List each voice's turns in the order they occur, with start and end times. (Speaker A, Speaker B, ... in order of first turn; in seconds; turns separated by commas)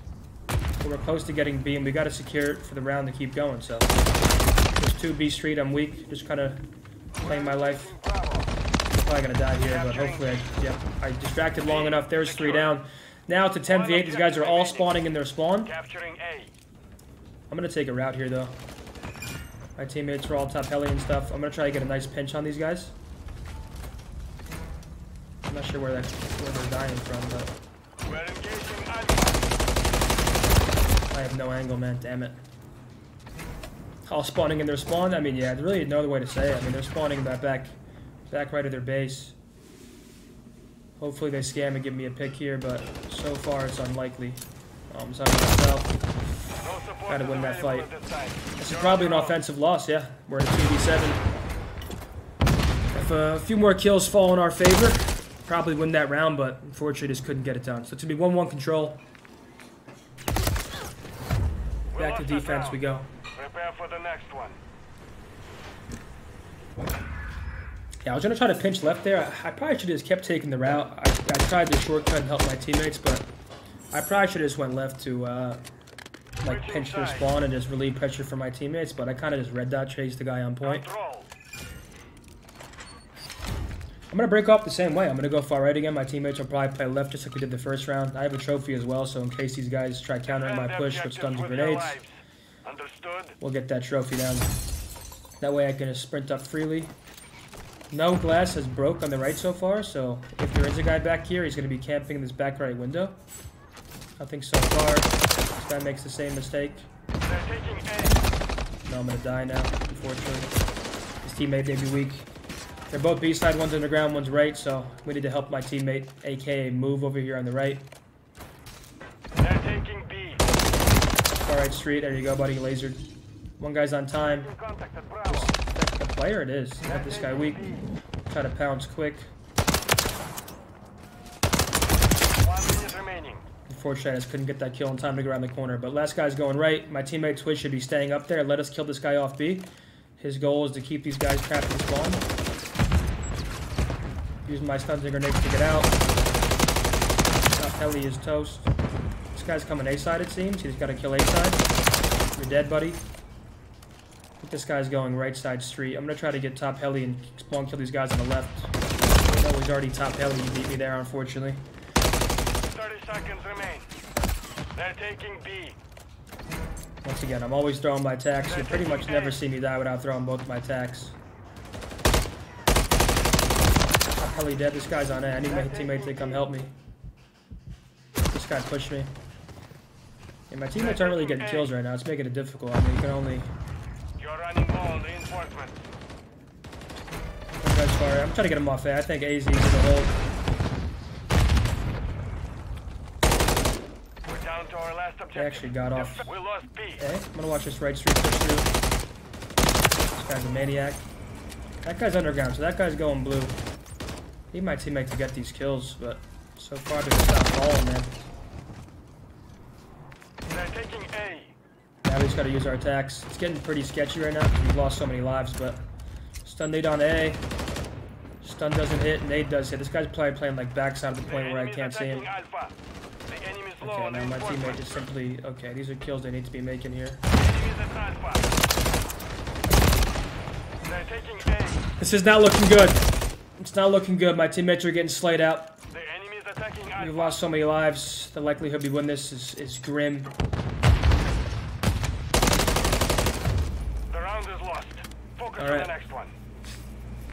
Speaker A: 0.8-4.0, Speaker A: 4.8-6.6, Speaker B: 7.2-8.5, Speaker A: 7.2-7.9, Speaker A: 8.9-15.7, Speaker B: 9.6-10.4, Speaker B: 11.6-12.7, Speaker B: 13.7-14.9, Speaker B: 15.6-16.5, Speaker A: 17.5-18.5, Speaker A: 19.8-22.9, Speaker A: 25.5-27.5, Speaker B: 28.0-29.4, Speaker A: 31.1-32.4, Speaker A: 34.1-37.8, Speaker A: 38.3-39.4, Speaker A: 41.0-46.0, Speaker B: 46.6-49.4, Speaker A: 47.1-47.9, Speaker A: 48.6-51.2, Speaker A: 52.9-59.0, Speaker B: 61.9-62.8, Speaker A: 62.0-63.1, Speaker B: 63.4-64.6, Speaker A: 68.0-73.3, Speaker A: 73.9-75.6, Speaker A: 76.4-80.8, Speaker B: 76.5-77.3, Speaker B: 80.6-81.3, Speaker A: 84.1-92.0, Speaker B: 90.3-92.1, Speaker B: 92.6-93.4, Speaker A: 93.4-94.5, Speaker A: 95.4-96.9, Speaker A: 97.9-103.2, Speaker A: 104.2-106.9, Speaker B: 107.2-108.2, Speaker A: 108.8-110.5, Speaker A: 111.2-112.3, Speaker A: 112.9-117.9, Speaker B: 119.4-120.5, Speaker A: 121.4-123.0, Speaker A: 123.6-124.5, Speaker B: 124.3-125.5, Speaker A: 125.3-127.6, Speaker B: 126.8-127.8, Speaker A: 128.3-129.3, Speaker B: 132.4-133.4, Speaker A: 133.7-142.3, Speaker A: 144.4-146.0, Speaker A: 147.6-148.7, Speaker A: 149.3-151.6, Speaker A: 152.3-153.0, Speaker A: 154.4-158.7, Speaker A: 159.2-161.6, Speaker B: 162.6-163.9, Speaker B: 164.7-165.8, Speaker A: 167.0-171.2, Speaker B: 168.5-169.4, Speaker A: 174.2-176.7, Speaker B: 175.5-176.4, Speaker A: 178.3-179.1, Speaker A: 180.5-183.5, Speaker B: 180.8-181.7, Speaker B: 184.2-185.8, Speaker A: 187.6-190.2, Speaker B: 194.2-197.0, Speaker A: 195.3-196.3, Speaker A: 197.0-198.7, Speaker A: 200.1-201.0, Speaker A: 201.8-203.6, Speaker A: 204.5-208.2, Speaker B: 210.5-211.5, Speaker A: 212.0-215.8, Speaker A: 216.4-217.4, Speaker A: 218.4-222.3, Speaker B: 221.3-222.8, Speaker B: 223.3-224.9, Speaker A: 223.8-227.2, Speaker B: 227.3-228.5, Speaker B: 230.8-231.9, Speaker A: 232.0-235.8, Speaker B: 235.9-237.4, Speaker A: 236.9-240.3, Speaker B: 244.1-246.3, Speaker A: 245.6-245.9